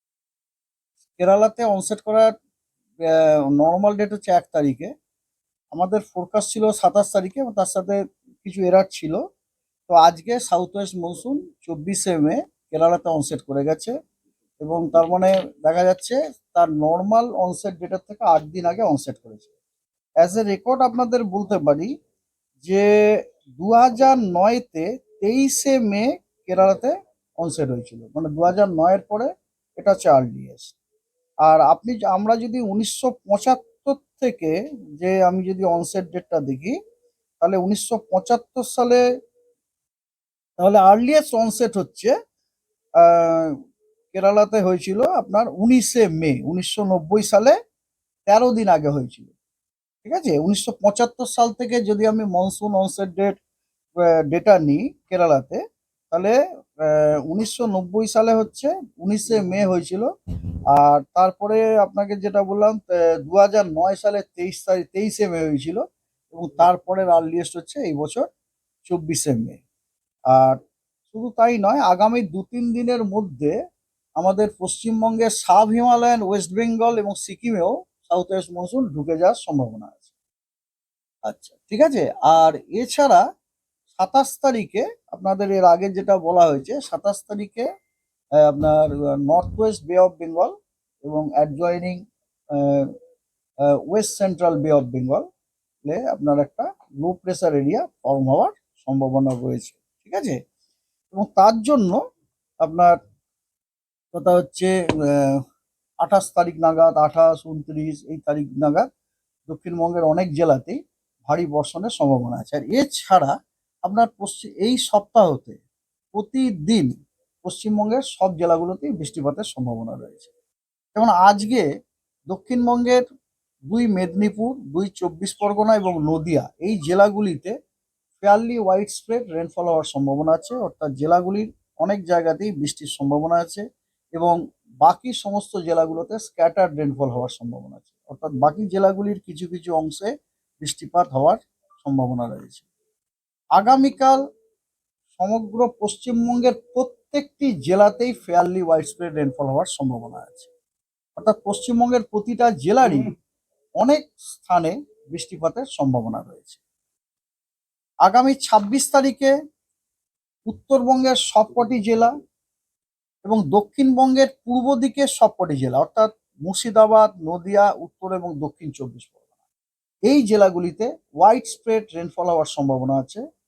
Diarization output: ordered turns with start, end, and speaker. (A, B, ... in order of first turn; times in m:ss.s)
0:01.2-0:02.3 A
0:03.1-0:04.9 A
0:05.7-0:09.2 A
0:09.9-0:13.9 A
0:14.6-0:19.5 A
0:20.2-0:21.9 A
0:22.6-0:30.8 A
0:31.4-0:36.8 A
0:37.4-0:39.0 A
0:40.6-0:42.1 A
0:43.0-0:43.5 A
0:44.1-0:47.5 A
0:48.3-0:49.3 A
0:50.0-0:53.4 A
0:54.0-0:56.3 A
0:56.8-1:00.1 A
1:00.7-1:05.8 A
1:06.3-1:08.3 A
1:08.8-1:09.6 A
1:10.3-1:10.6 A
1:11.1-1:13.5 A
1:14.2-1:20.0 A
1:21.3-1:23.2 A
1:24.0-1:27.6 A
1:28.4-1:30.5 A
1:31.1-1:32.0 A
1:32.6-1:32.9 A
1:33.9-1:35.2 A
1:35.8-1:40.4 A
1:41.1-1:42.0 A
1:42.6-1:43.0 A
1:44.1-1:45.4 A
1:46.0-1:48.9 A
1:49.5-1:53.3 A
1:53.8-1:55.6 A
1:56.1-1:56.9 A
1:57.4-2:00.3 A
2:00.9-2:01.6 A
2:02.3-2:03.0 A
2:03.7-2:07.5 A
2:08.2-2:13.6 A
2:14.2-2:20.1 A
2:20.6-2:22.6 A
2:23.6-2:24.2 A
2:25.2-2:30.5 A
2:31.2-2:33.1 A
2:33.8-2:36.6 A
2:38.1-2:39.3 A
2:40.5-2:42.1 A
2:43.2-2:49.2 A
2:50.1-2:53.2 A